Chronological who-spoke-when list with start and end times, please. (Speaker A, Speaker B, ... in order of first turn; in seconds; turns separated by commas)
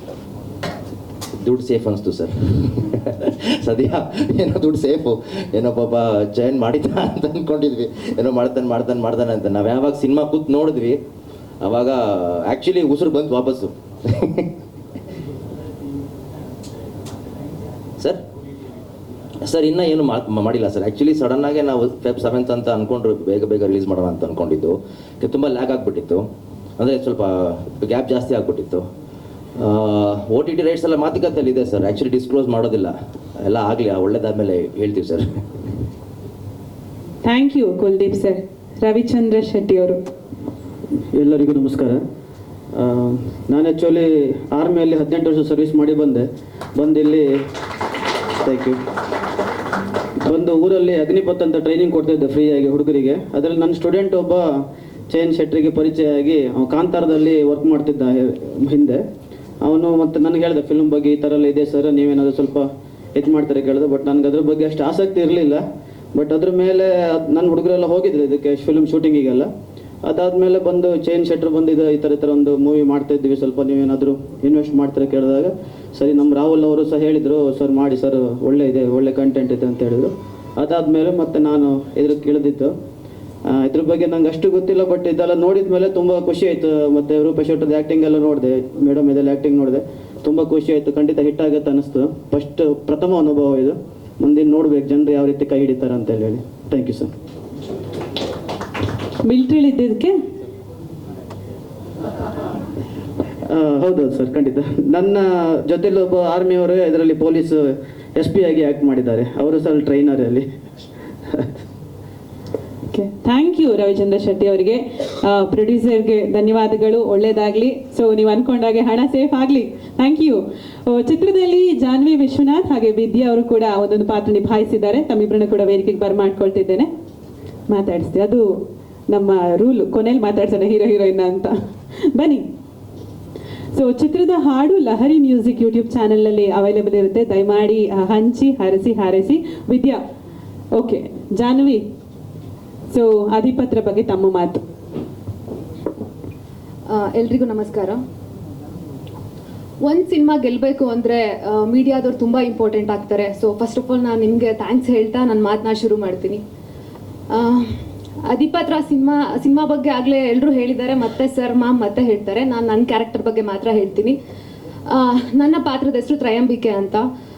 Speaker A: 1.4-11.0, Speaker A: 11.6-14.5, Speaker A: 19.4-26.3, Speaker A: 26.8-28.9, Speaker A: 29.6-35.4, Speaker B: 37.2-40.0, Speaker C: 41.1-42.0, Speaker C: 42.7-47.3, Speaker C: 48.4-48.8, Speaker C: 50.2-59.0, Speaker C: 59.6-65.6, Speaker C: 66.2-69.5, Speaker C: 70.0-82.7, Speaker C: 83.5-97.1, Speaker B: 99.2-100.2, Speaker C: 103.5-110.5, Speaker B: 112.9-126.9, Speaker B: 127.7-131.6, Speaker B: 132.1-132.5, Speaker B: 133.7-140.0, Speaker B: 140.8-141.9, Speaker B: 142.9-144.6, Speaker D: 146.9-148.0, Speaker D: 149.8-156.4, Speaker D: 157.3-164.2, Speaker D: 164.9-167.1